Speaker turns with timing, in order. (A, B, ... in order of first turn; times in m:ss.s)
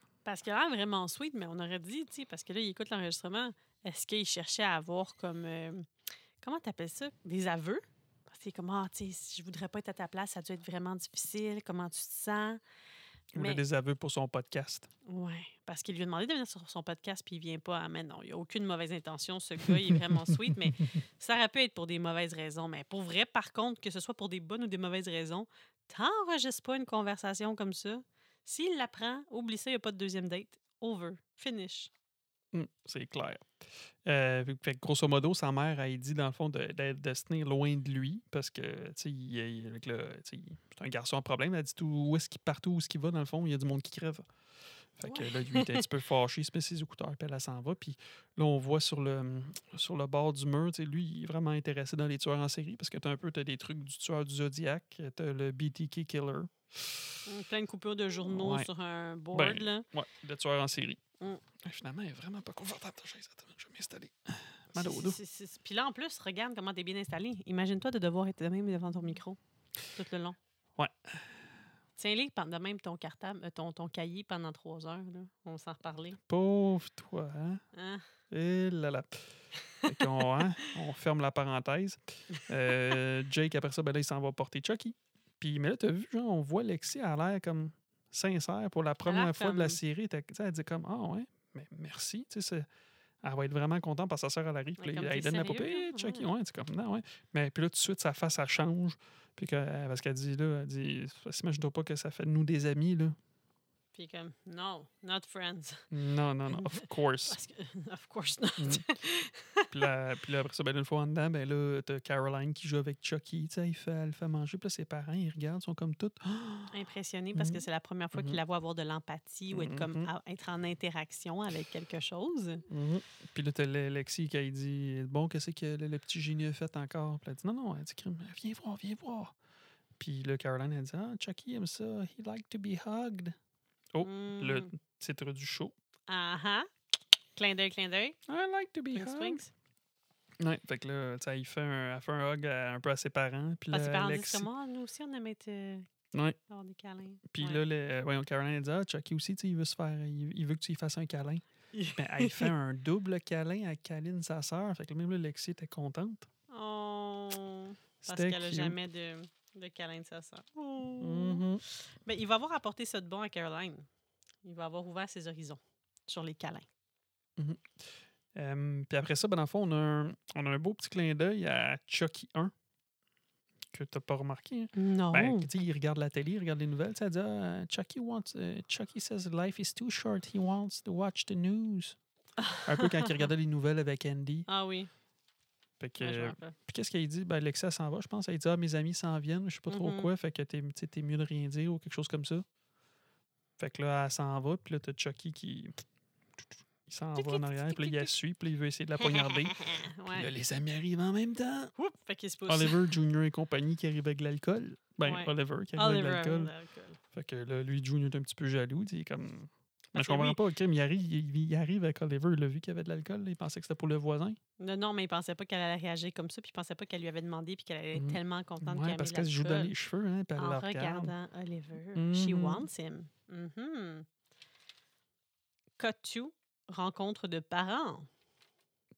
0:00.2-0:05.9 A
0:06.4-0:12.6 A
0:13.3-0:13.6 A
0:13.3-0:14.9 B
0:15.0-0:31.9 A
0:19.8-0:20.5 B
0:32.5-0:44.3 B
0:45.0-0:57.2 B
0:45.0-0:45.8 A
0:57.2-0:59.8 A
0:58.2-0:58.7 B
0:59.3-1:01.0 B
1:01.6-1:05.2 B
1:04.7-1:10.4 A
1:10.8-1:11.4 B
1:12.0-1:16.2 A
1:16.3-1:17.6 B
1:17.7-1:18.0 A
1:18.3-1:32.7 B
1:19.7-1:20.2 A
1:29.0-1:29.8 A
1:33.2-1:43.2 B
1:34.8-1:36.3 A
1:43.9-1:45.9 A
1:45.9-1:47.4 B
1:46.5-1:49.7 A
1:48.6-1:48.8 B
1:49.7-1:56.7 B
1:56.7-2:02.6 A
1:57.3-1:58.4 B
1:59.5-2:00.1 B
2:02.7-2:09.3 B
2:10.0-2:13.4 B
2:13.9-2:15.7 B
2:14.0-2:14.7 A
2:16.1-2:16.7 A
2:17.4-2:18.2 A
2:18.3-2:19.4 B
2:18.9-2:19.5 A
2:20.4-2:24.5 B
2:23.7-2:25.9 A
2:26.1-2:26.4 B
2:26.5-2:27.6 A
2:27.3-2:36.3 B
2:31.7-2:32.5 A
2:36.5-2:43.9 A
2:38.0-2:38.8 B
2:41.0-2:41.6 B
2:44.4-2:46.7 A
2:47.4-2:52.5 B
2:53.7-3:02.0 B
2:54.7-2:55.5 A
3:02.4-3:03.3 A
3:02.6-3:04.5 B
3:04.5-3:04.9 A
3:05.8-3:12.4 B
3:06.0-3:06.6 A
3:09.7-3:10.1 A
3:13.6-3:15.8 B
3:16.4-3:21.7 B
3:17.2-3:18.1 A
3:19.2-3:20.3 A
3:21.8-3:22.8 A
3:22.5-3:26.5 B
3:25.0-3:27.0 A
3:27.1-3:34.4 B
3:29.9-3:30.4 A
3:34.6-3:39.7 A
3:37.9-3:41.1 B
3:40.4-3:44.0 A
3:41.9-3:42.7 B
3:45.8-3:48.1 A